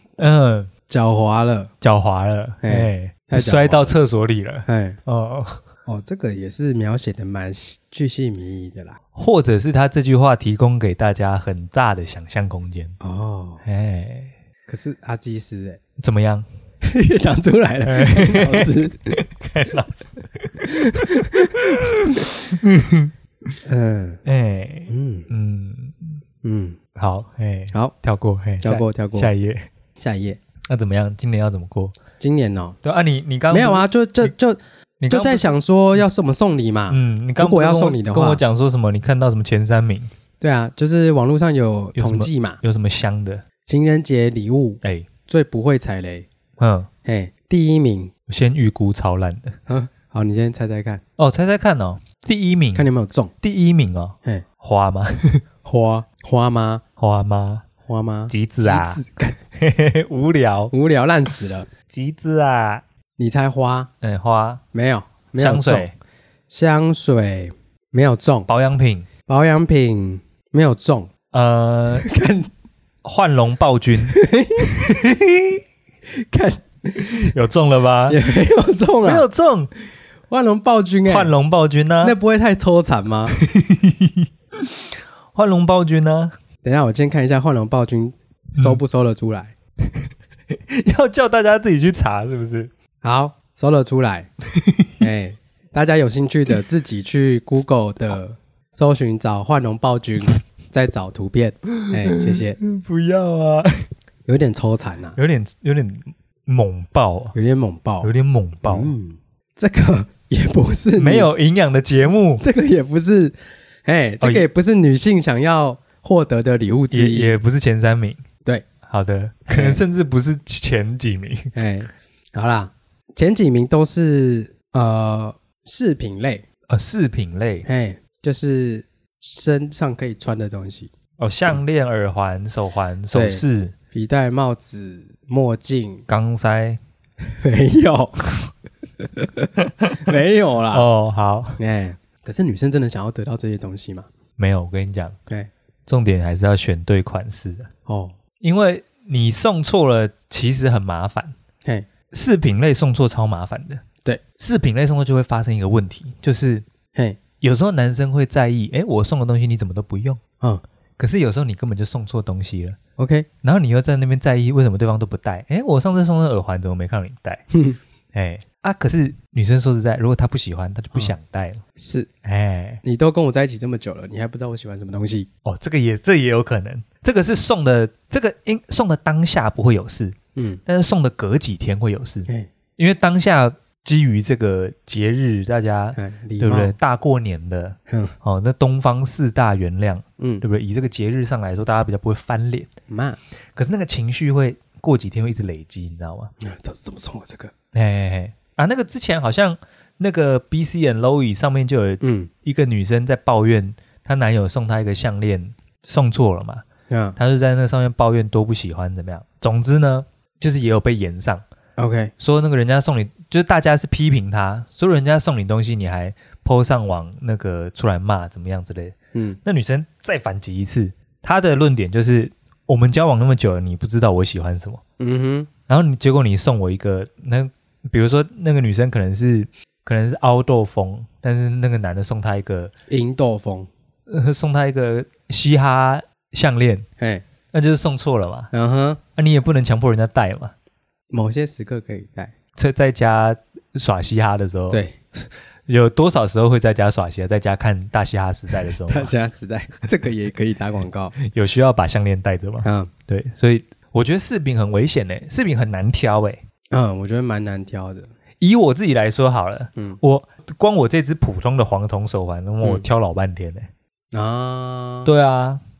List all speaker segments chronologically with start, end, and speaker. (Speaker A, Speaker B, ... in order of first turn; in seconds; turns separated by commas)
Speaker A: 0.2-0.7, Speaker B: 0.9-1.7, Speaker A: 1.8-5.6, Speaker B: 2.6-3.9, Speaker B: 4.7-5.0, Speaker B: 5.8-9.0, Speaker A: 9.2-12.9, Speaker B: 13.0-13.6, Speaker A: 13.6-14.3, Speaker B: 14.7-15.8, Speaker A: 16.0-16.4, Speaker B: 16.8-19.2, Speaker A: 17.8-23.1, Speaker B: 20.6-22.0, Speaker B: 23.6-24.2, Speaker A: 24.2-26.2, Speaker B: 24.9-25.3, Speaker B: 26.4-26.8, Speaker A: 26.9-29.6, Speaker B: 28.6-29.3, Speaker B: 30.0-30.4, Speaker A: 30.7-32.0, Speaker B: 32.2-32.8, Speaker A: 32.8-34.3, Speaker B: 33.5-38.4, Speaker A: 35.0-35.5, Speaker A: 36.9-40.1, Speaker B: 40.4-42.6, Speaker A: 42.0-43.4, Speaker B: 43.6-46.3, Speaker A: 44.8-45.1, Speaker A: 46.6-46.9, Speaker B: 47.0-48.1, Speaker A: 48.3-49.6, Speaker B: 49.7-51.0, Speaker A: 51.2-52.9, Speaker B: 52.7-53.3, Speaker A: 53.4-55.4, Speaker B: 55.6-56.8, Speaker A: 57.0-57.6, Speaker B: 57.9-59.4, Speaker A: 58.3-59.0, Speaker A: 59.5-60.7, Speaker B: 60.7-61.7, Speaker A: 61.9-62.8, Speaker B: 63.2-63.9, Speaker A: 64.0-64.6, Speaker B: 64.7-65.9, Speaker A: 65.4-65.9, Speaker B: 66.5-68.5, Speaker A: 68.5-69.1, Speaker B: 69.3-71.1, Speaker A: 71.3-72.1, Speaker B: 72.0-72.5, Speaker A: 73.0-75.6, Speaker B: 74.1-75.0, Speaker B: 76.1-77.3, Speaker A: 77.0-78.2, Speaker B: 78.1-79.3, Speaker A: 79.0-79.7, Speaker B: 80.3-81.3, Speaker A: 81.0-82.2, Speaker B: 82.0-83.4, Speaker A: 83.3-86.3, Speaker B: 86.6-89.5, Speaker A: 89.9-92.7, Speaker B: 93.0-94.3, Speaker A: 94.5-95.0, Speaker B: 95.0-102.6, Speaker A: 101.8-103.9, Speaker B: 104.3-105.2, Speaker A: 105.2-107.3, Speaker B: 107.3-108.1, Speaker A: 108.0-108.9, Speaker B: 108.6-111.3, Speaker A: 111.0-112.4, Speaker B: 112.4-117.3, Speaker A: 116.9-118.2, Speaker A: 118.8-121.5, Speaker B: 119.5-119.8, Speaker B: 121.5-126.4, Speaker A: 126.7-127.7, Speaker B: 127.6-130.9, Speaker A: 131.2-133.7, Speaker B: 133.1-136.1, Speaker A: 136.1-136.8, Speaker B: 137.2-138.5, Speaker B: 139.0-140.9, Speaker A: 139.6-140.2, Speaker A: 140.7-141.6, Speaker B: 141.6-144.1, Speaker A: 144.4-145.2, Speaker A: 145.9-147.7, Speaker B: 147.8-148.1, Speaker A: 148.4-151.3, Speaker A: 152.1-153.8, Speaker A: 154.4-156.7, Speaker B: 156.9-157.2, Speaker A: 157.4-160.2, Speaker A: 161.0-162.8, Speaker B: 163.0-163.3, Speaker A: 163.4-167.4, Speaker B: 167.5-167.8, Speaker A: 168.1-171.6, Speaker B: 171.8-172.1, Speaker A: 172.2-172.8, Speaker B: 172.8-175.3, Speaker A: 175.4-192.7, Speaker B: 180.3-180.6, Speaker B: 185.9-186.8, Speaker B: 187.9-188.2, Speaker B: 190.2-190.4, Speaker B: 192.9-193.2, Speaker A: 193.5-196.3, Speaker B: 196.4-197.5, Speaker A: 197.7-206.6, Speaker B: 202.0-202.3, Speaker B: 206.9-207.2, Speaker A: 207.2-211.4, Speaker B: 211.8-212.1, Speaker A: 212.2-224.8, Speaker B: 219.1-219.4, Speaker B: 225.0-225.5, Speaker A: 225.7-232.7, Speaker B: 232.9-233.7, Speaker A: 234.1-236.9, Speaker B: 237.0-237.2, Speaker A: 237.5-238.5, Speaker B: 238.5-239.0, Speaker A: 239.2-240.5, Speaker B: 241.1-242.3, Speaker A: 242.6-249.1, Speaker B: 244.7-244.9, Speaker B: 248.8-251.2, Speaker A: 251.2-256.4, Speaker B: 252.6-252.9, Speaker B: 256.7-258.1, Speaker A: 258.4-263.7, Speaker B: 264.1-265.1, Speaker A: 265.0-265.6